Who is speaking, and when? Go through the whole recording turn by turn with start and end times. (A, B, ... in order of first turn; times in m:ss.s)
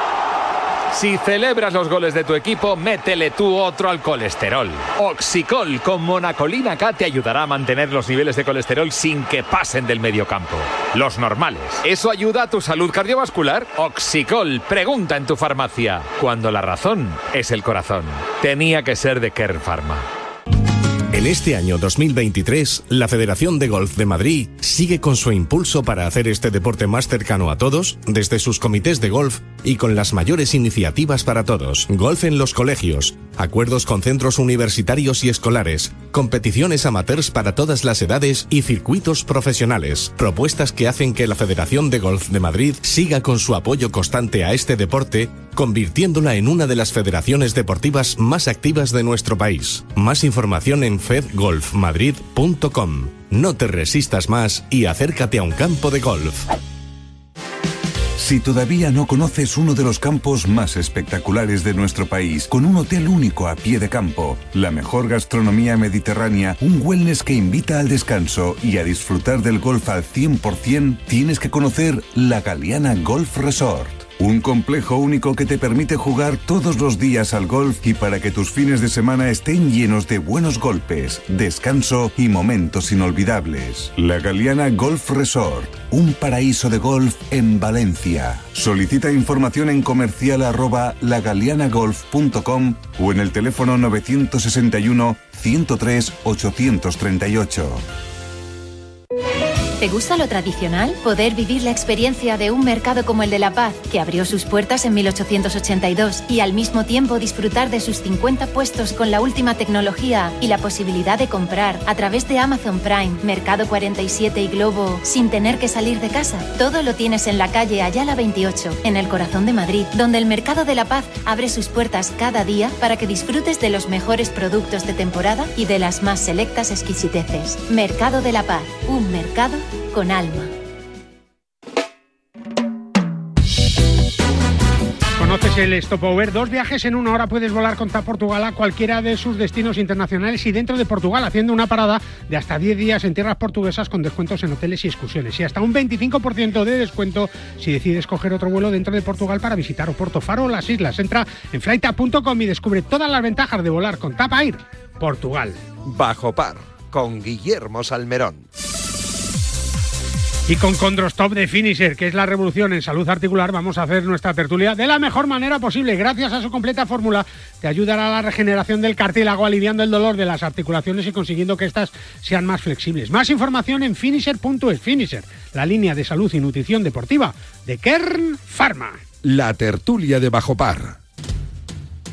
0:00.9-0:20.1 A
0:21.1-0:56.4 B
0:58.2-1:37.8 C
1:39.8-2:10.5 D
2:15.2-2:35.6 E
2:35.8-2:38.5 F
2:40.5-2:59.0 E
2:59.2-3:01.0 F